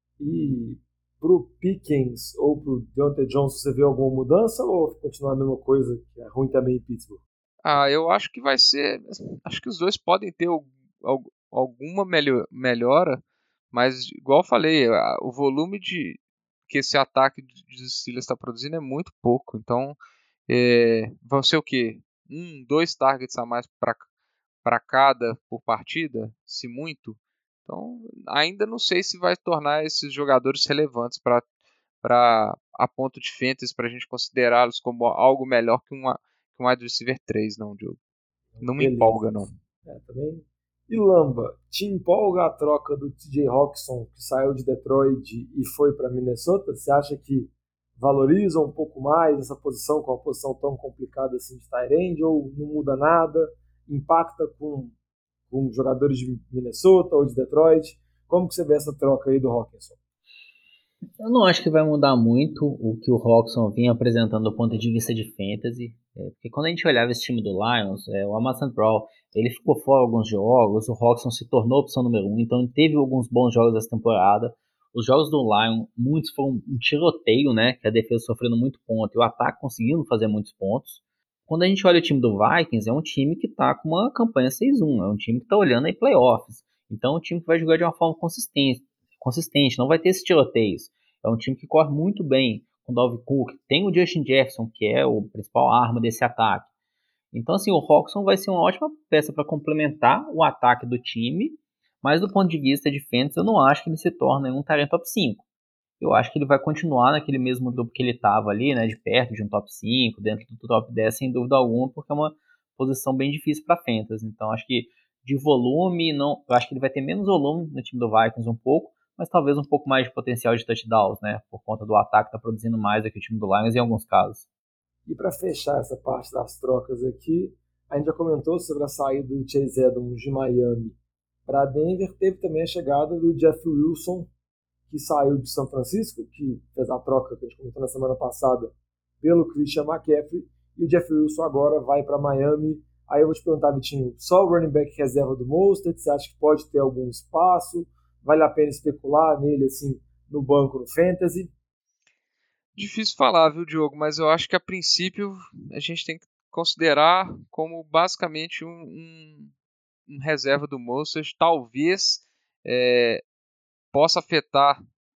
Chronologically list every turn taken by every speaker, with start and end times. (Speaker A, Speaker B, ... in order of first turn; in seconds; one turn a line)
Speaker A: 0.2-7.2
Speaker B: 7.6-13.2
Speaker B: 13.7-16.2
Speaker B: 16.7-24.0
Speaker B: 24.6-31.4
Speaker B: 32.0-38.0
Speaker A: 38.5-54.9
Speaker B: 38.6-39.5
Speaker A: 55.5-60.0
Speaker C: 61.2-96.7
Speaker C: 97.3-105.4
Speaker C: 106.0-124.5
Speaker A: 125.0-130.9
Speaker A: 131.5-134.3
Speaker A: 134.9-151.5
Speaker B: 152.7-159.5
Speaker B: 160.1-163.2
Speaker B: 163.9-164.8